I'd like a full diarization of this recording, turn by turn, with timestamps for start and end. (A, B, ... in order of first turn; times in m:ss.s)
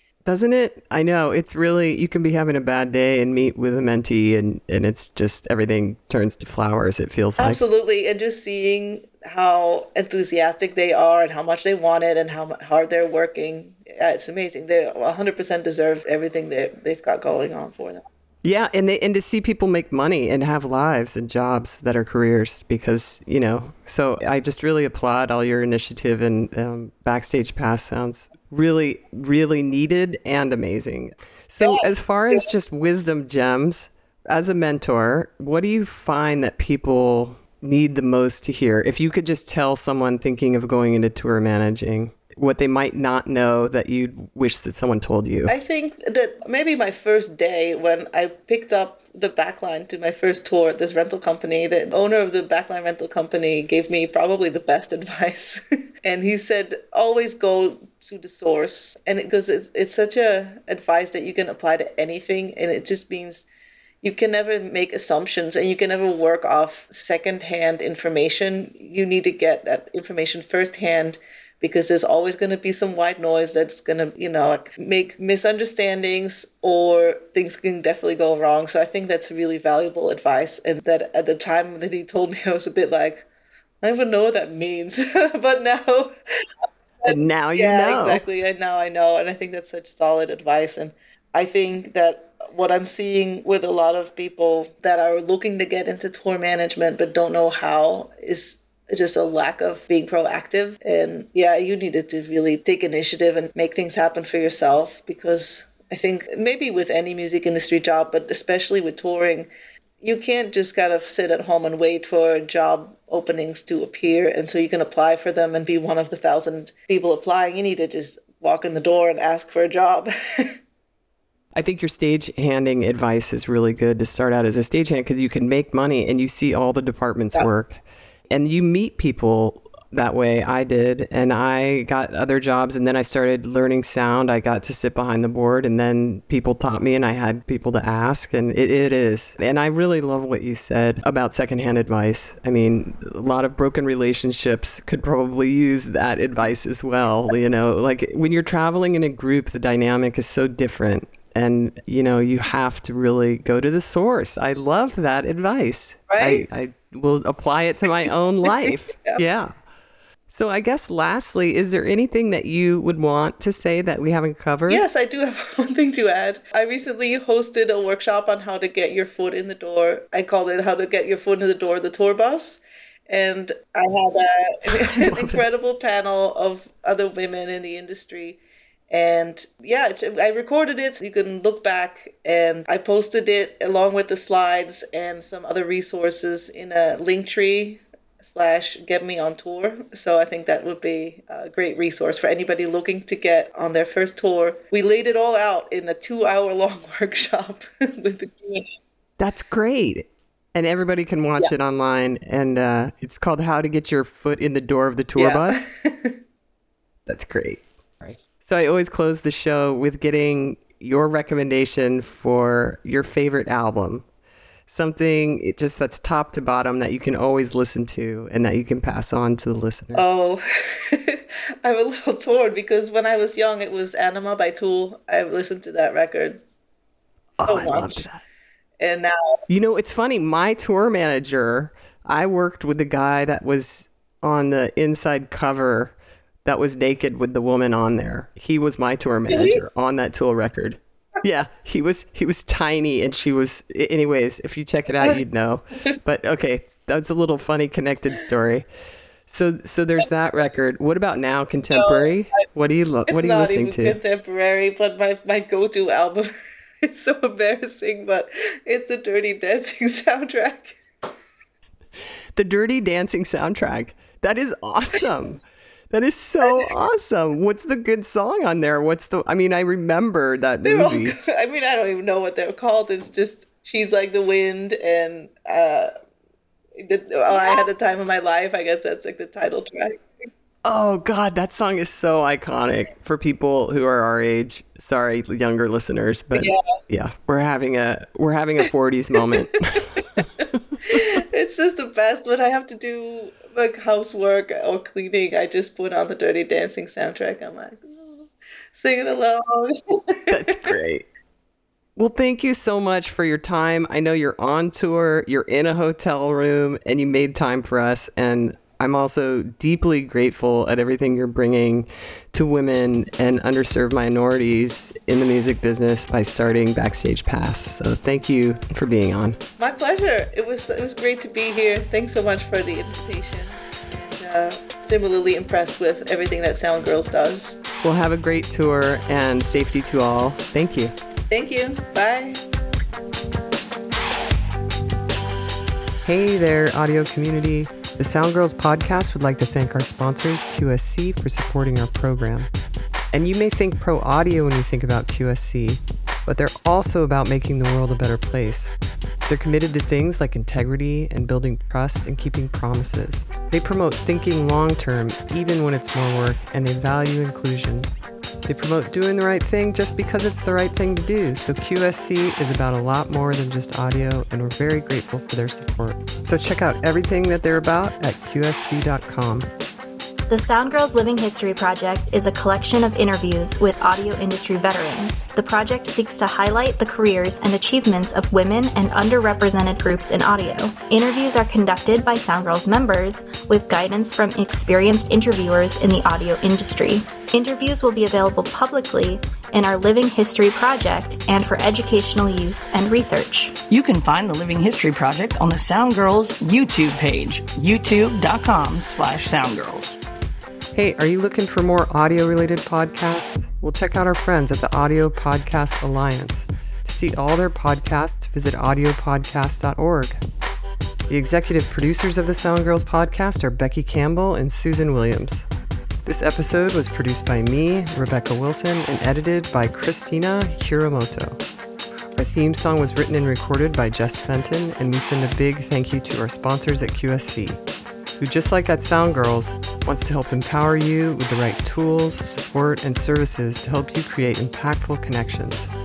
0:00.2-0:07.6 A
0:07.4-0:18.0 B
0:18.4-0:45.6 A
0:31.6-0:32.5 B
0:45.5-1:03.5 B
1:04.0-1:23.3 B
1:23.8-1:26.1 B
1:27.0-1:49.5 B
1:27.1-1:28.2 A
1:50.0-2:00.5 B
2:01.6-2:39.5 A
2:36.1-2:36.5 B
2:38.5-2:39.2 B
2:40.3-2:44.8 A
2:44.7-3:18.7 B
2:55.0-2:55.4 A
3:19.2-3:25.6 A
3:25.2-3:26.2 B
3:27.1-3:34.0 A
3:34.7-3:40.0 A
3:39.9-3:46.4 B
3:47.4-3:48.2 A
3:47.4-3:48.1 B
3:48.8-3:49.4 B
3:49.5-4:08.7 A
3:59.3-3:59.6 B
4:09.3-4:14.0 A
4:11.7-4:12.4 B
4:13.1-4:16.3 B
4:16.8-4:20.8 B
4:22.4-4:31.2 A
4:26.4-4:26.7 B
4:30.6-4:35.9 B
4:36.8-4:40.2 B
4:40.6-4:51.0 A
4:46.4-4:46.6 B
4:50.2-5:00.7 B
5:00.3-5:01.0 A
5:02.0-5:19.4 A
5:19.6-5:27.6 B
5:27.8-5:30.9 A
5:31.3-5:32.4 B
5:36.0-5:42.5 A
5:43.1-5:48.7 A
5:49.3-5:57.9 A
5:58.5-6:09.5 A
6:10.3-6:33.6 C
6:33.7-6:40.0 D
6:40.7-6:50.2 A
6:51.1-6:55.5 A
6:56.0-7:01.4 A
7:02.2-7:07.6 A
7:08.2-7:15.7 A